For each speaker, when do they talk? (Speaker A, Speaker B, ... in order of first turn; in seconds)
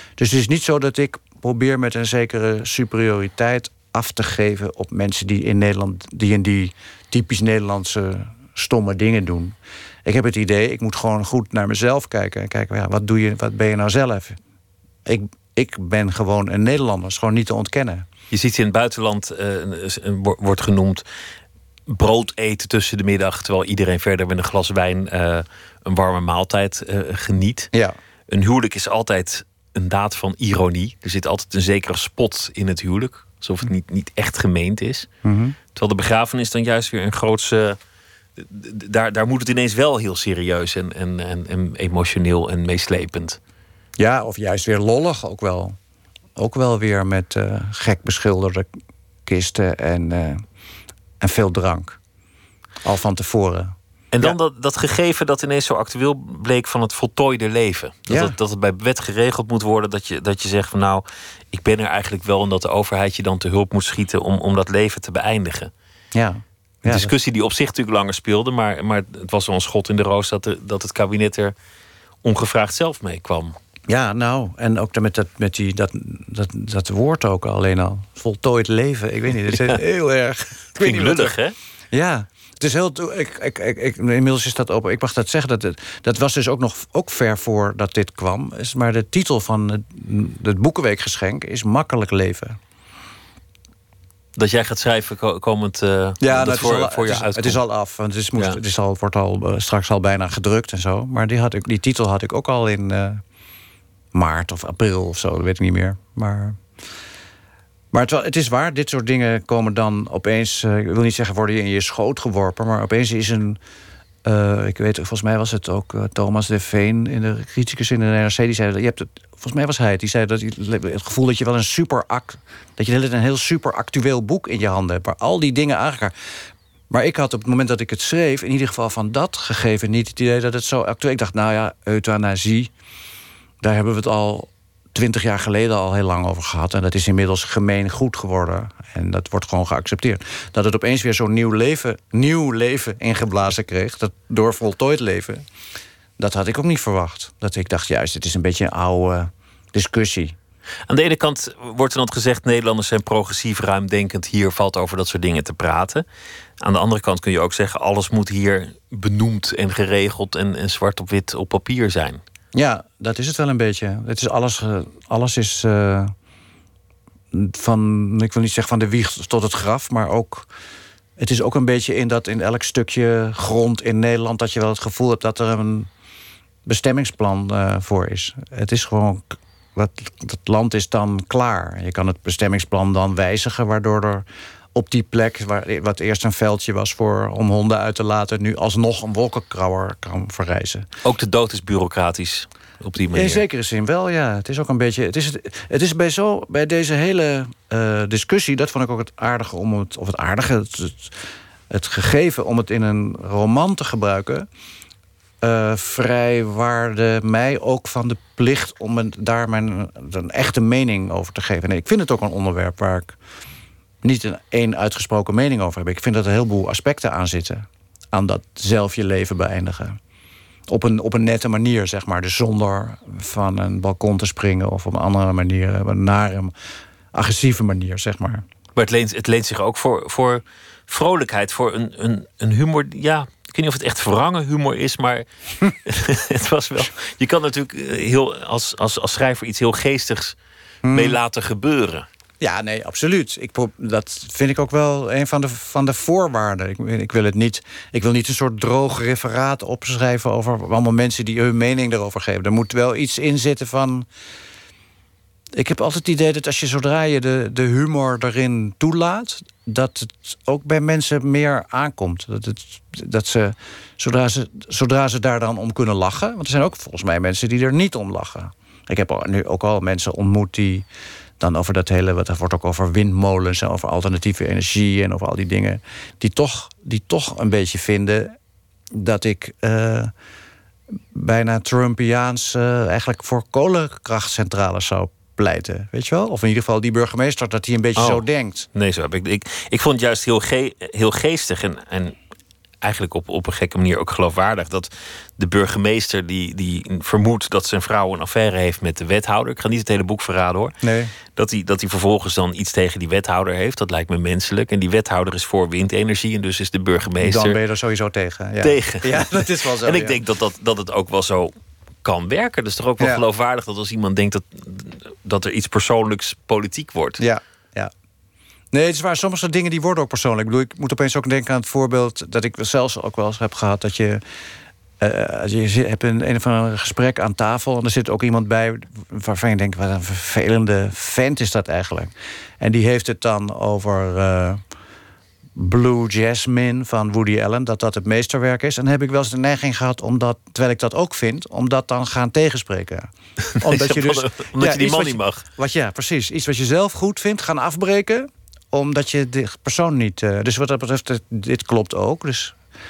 Speaker A: 0.2-14.4, 15.1-18.1, 35.2-35.6, 44.0-45.8, 46.4-48.7, 49.3-50.4, 51.2-52.0, 52.8-54.4, 58.1-58.4, 66.1-67.1, 73.9-81.4, 81.9-92.6, 96.2-103.2, 104.1-106.6, 107.9-113.6, 114.2-126.2, 126.9-132.7, 133.6-145.4, 146.2-150.4, 162.5-166.1, 167.3-170.5, 171.2-175.9, 176.7-190.9, 193.1-204.5, 205.4-213.2, 214.0-220.0, 220.7-226.5, 227.1-228.4, 240.8-241.2, 242.4-254.1, 255.5-270.9, 271.4-278.4, 278.9-280.1, 281.1-288.7, 300.8-301.1, 307.2-310.2, 317.2-317.9, 318.7-324.2, 325.0-334.6, 335.6-343.1, 343.6-352.6
Speaker B: 18.3-21.0, 21.9-27.7, 28.3-35.1, 35.8-37.8, 38.4-43.4, 54.1-65.7, 66.9-71.5, 72.2-73.5, 79.5-79.8, 80.8-81.5, 94.4-97.6, 150.9-156.0, 156.6-162.2, 191.0-193.4, 228.8-235.2, 235.9-240.4, 240.9-242.1, 288.0-292.2, 292.8-300.7, 301.4-307.6, 308.6-317.2, 343.6-345.4